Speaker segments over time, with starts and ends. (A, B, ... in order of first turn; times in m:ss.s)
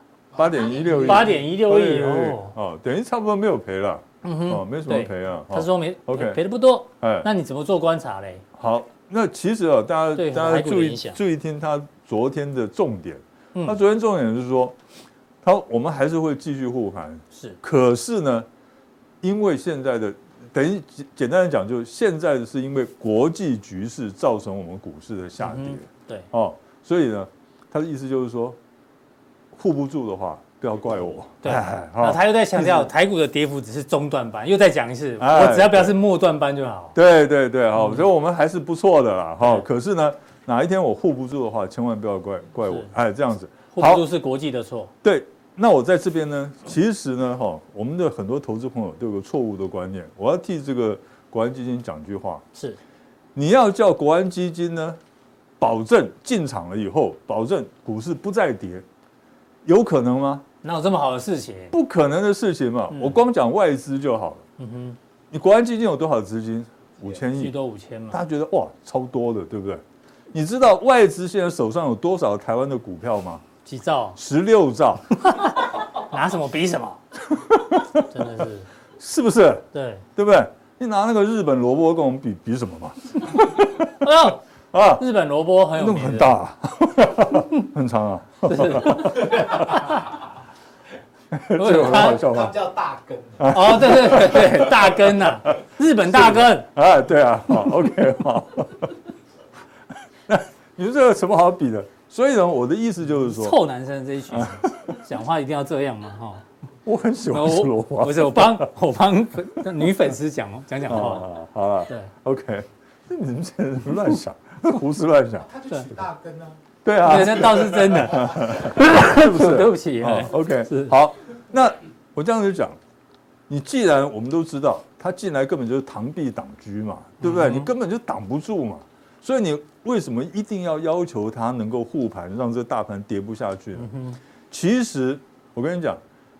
0:00.3-0:01.4 A
0:00.4-0:06.4 B
0:01.0-0:02.5 C
0:04.2-0:08.4 C
0:07.0-0:07.3 B
0:08.5-0:14.8 B
0:10.1-0:11.2 C
0:15.4-0:18.5 B
0:17.3-0:17.6 C
0:19.2-0:28.6 B
0:25.4-0:26.3 C
0:29.5-0:32.9 B
0:31.4-0:37.0 C
0:35.2-0:36.0 B
0:36.9-0:44.0 B
0:43.7-0:44.9 C
0:45.0-0:52.4 B
0:53.3-0:55.0 B
0:55.6-0:58.8 B
0:59.6-1:00.4 B
1:00.6-1:01.7 C
1:01.7-1:04.4 B
1:02.9-1:03.2 C
1:04.6-1:05.0 C
1:05.3-1:07.6 B
1:07.3-1:08.2 C
1:08.1-1:13.4 B
1:13.6-1:14.2 C
1:14.2-1:15.2 B
1:15.2-1:17.0 C
1:17.2-1:18.3 B
1:18.1-1:18.7 C
1:19.0-1:23.9 B
1:19.7-1:20.0 C
1:24.0-1:24.4 C
1:24.7-1:25.0 B
1:25.0-1:26.3 C
1:25.8-1:30.0 B
1:28.4-1:29.8 C
1:29.2-1:30.1 A
1:31.3-1:32.6 B
1:31.5-1:32.2 C
1:31.9-1:33.8 A
1:33.4-1:38.9 B
1:33.5-1:36.7 C
1:40.3-1:43.6 B
1:43.3-1:46.4 C
1:44.3-1:45.0 B
1:46.8-1:48.7 B
1:47.3-1:51.3 C
1:50.8-1:55.5 B
1:55.4-1:56.6 A
1:56.8-2:02.8 B
1:57.0-2:00.9 C
1:57.5-1:58.5 A
2:03.5-2:13.9 B
2:07.2-2:07.7 C
2:13.8-2:14.2 C
2:14.5-2:16.0 B